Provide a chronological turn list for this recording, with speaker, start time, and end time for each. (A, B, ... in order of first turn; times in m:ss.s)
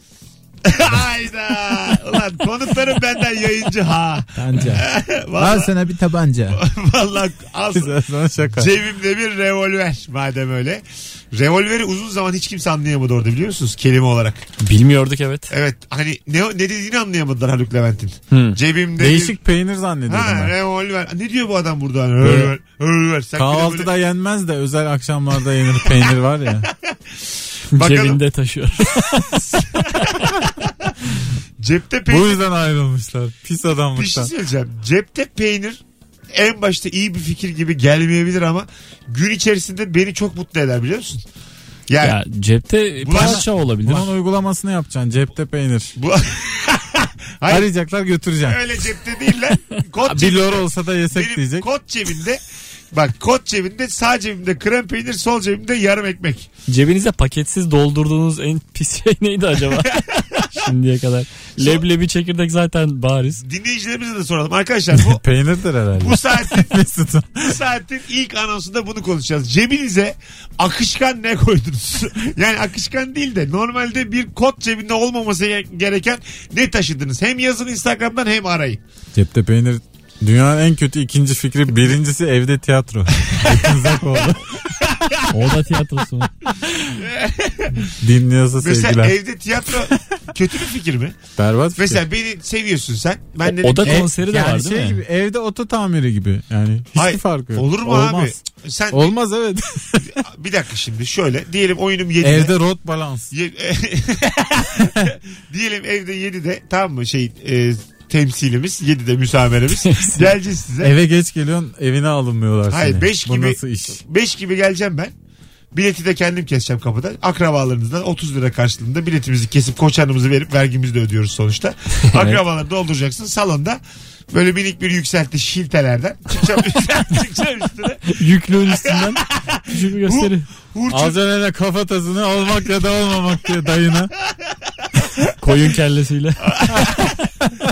0:00.6-0:05.7 A
0:04.4-0:06.6 B
0:06.5-0:07.9 A
0:07.7-0:08.7 B
0:08.5-0:14.5 A
0:14.6-0:15.5 C
0:15.5-0:19.4 A
0:18.3-0:18.6 C
0:19.0-0:20.5 B
0:20.1-0:23.9 A
0:22.2-0:22.5 B
0:23.4-0:26.7 B
0:27.7-0:29.8 C
0:27.8-0:28.2 A
0:29.2-0:30.3 A
0:31.6-0:32.4 A
0:32.1-0:34.3 B
0:34.0-0:35.8 A
0:36.3-0:41.2 A
0:41.9-0:42.2 A
0:42.0-0:44.1 C
0:43.0-0:44.0 A
0:43.1-0:46.0 B
0:46.0-0:47.7 A
0:47.5-0:48.6 B
0:48.4-0:56.5 A
0:50.0-0:51.7 B
0:56.7-1:00.0 C
0:59.8-1:00.5 A
1:00.5-1:03.4 C
1:01.6-1:01.8 A
1:03.4-1:05.2 A
1:04.9-1:07.6 B
1:06.0-1:06.7 A
1:07.4-1:18.8 A
1:19.1-1:24.5 B
1:24.8-1:25.3 A
1:25.3-1:26.3 C
1:26.9-1:27.9 A
1:28.0-1:29.2 B
1:28.6-1:31.2 A
1:31.4-1:32.0 B
1:31.8-1:34.0 A
1:33.6-1:35.0 C
1:33.8-1:38.4 B
1:37.0-1:39.1 A
1:38.9-1:40.2 B
1:40.1-1:42.5 A
1:42.2-1:43.3 B
1:43.3-1:50.9 A
1:49.9-1:50.2 C
1:50.8-1:54.0 B
1:52.7-1:55.1 A
1:55.7-2:03.8 A
2:02.1-2:02.4 C
2:04.3-2:11.2 A
2:08.1-2:10.5 C
2:10.9-2:14.1 B
2:15.4-2:16.4 C
2:16.4-2:17.2 A